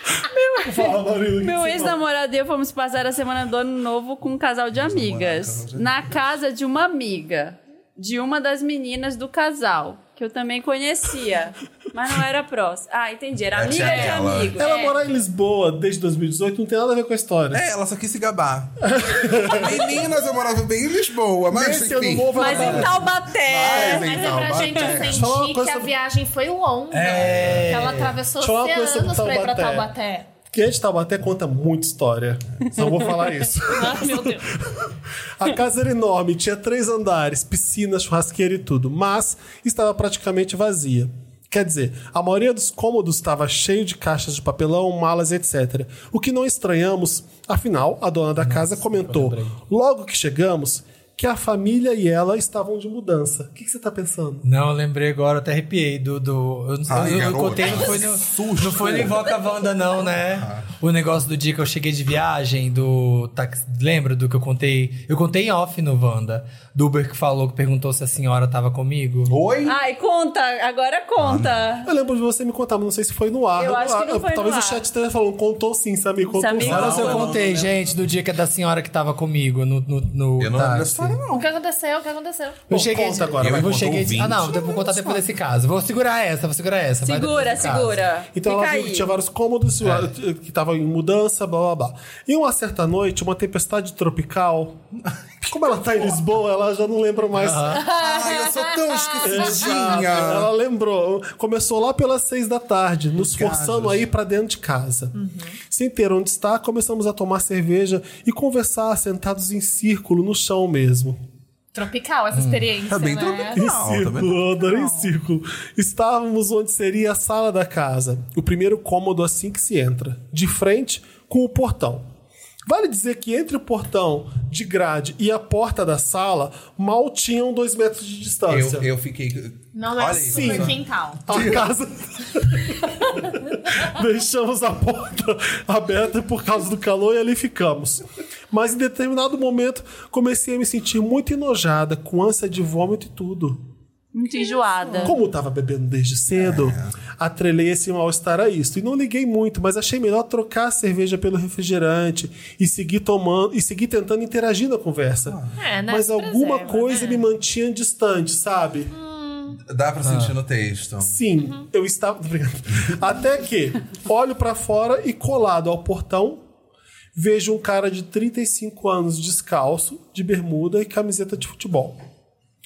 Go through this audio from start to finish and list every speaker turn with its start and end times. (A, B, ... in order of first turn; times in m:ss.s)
0:00.3-0:02.0 A
0:00.7-0:14.9 B
0:04.7-0:06.2 C
0:13.5-0:14.6 C
0:13.7-0:14.2 D
0:14.6-0:17.6 A
0:17.5-0:25.3 C
0:18.8-0:19.9 A
0:21.5-0:23.1 A
0:22.4-0:24.7 B
0:23.7-0:30.3 D
0:25.1-0:25.9 A
0:26.9-0:28.2 E
0:27.2-0:27.7 C
0:28.4-0:29.9 A
0:30.5-0:54.4 A
0:33.7-0:34.5 D
0:48.4-0:49.6 E
0:54.4-1:09.4 E
0:56.9-0:59.2 C
1:00.2-1:00.7 C
1:09.3-1:09.8 C
1:09.6-1:11.9 B
1:11.2-1:11.6 C
1:11.8-1:17.1 A
1:13.6-1:14.8 B
1:16.3-1:17.3 B
1:16.6-1:18.0 C
1:16.6-1:21.2 E
1:20.4-1:21.5 C
1:21.3-1:22.6 D
1:22.7-1:28.0 E
1:22.7-1:23.9 A
1:23.4-1:25.2 C
1:27.0-1:29.1 B
1:28.3-1:34.8 A
1:29.8-1:30.1 E
1:35.0-1:36.2 C
1:35.4-1:38.0 A
1:37.4-1:37.8 E
1:37.8-1:40.5 C
1:39.2-1:45.1 A
1:43.2-1:44.1 C
1:45.1-1:45.6 D
1:45.6-1:51.2 A
1:51.7-1:53.6 D
1:52.3-1:52.7 E
1:52.8-1:55.1 C
1:53.5-2:02.1 A
2:02.6-2:08.9 A
2:08.5-2:11.7 C
2:09.7-2:11.2 D
2:10.2-2:23.6 A
2:24.1-2:25.1 B
2:25.0-2:38.9 A
2:26.3-2:26.9 C
2:35.2-2:35.6 C
2:35.6-2:37.2 D
2:38.9-2:39.6 D
2:39.6-2:41.2 C
2:40.0-2:40.3 E
2:41.0-2:46.4 A
2:47.1-2:52.0 A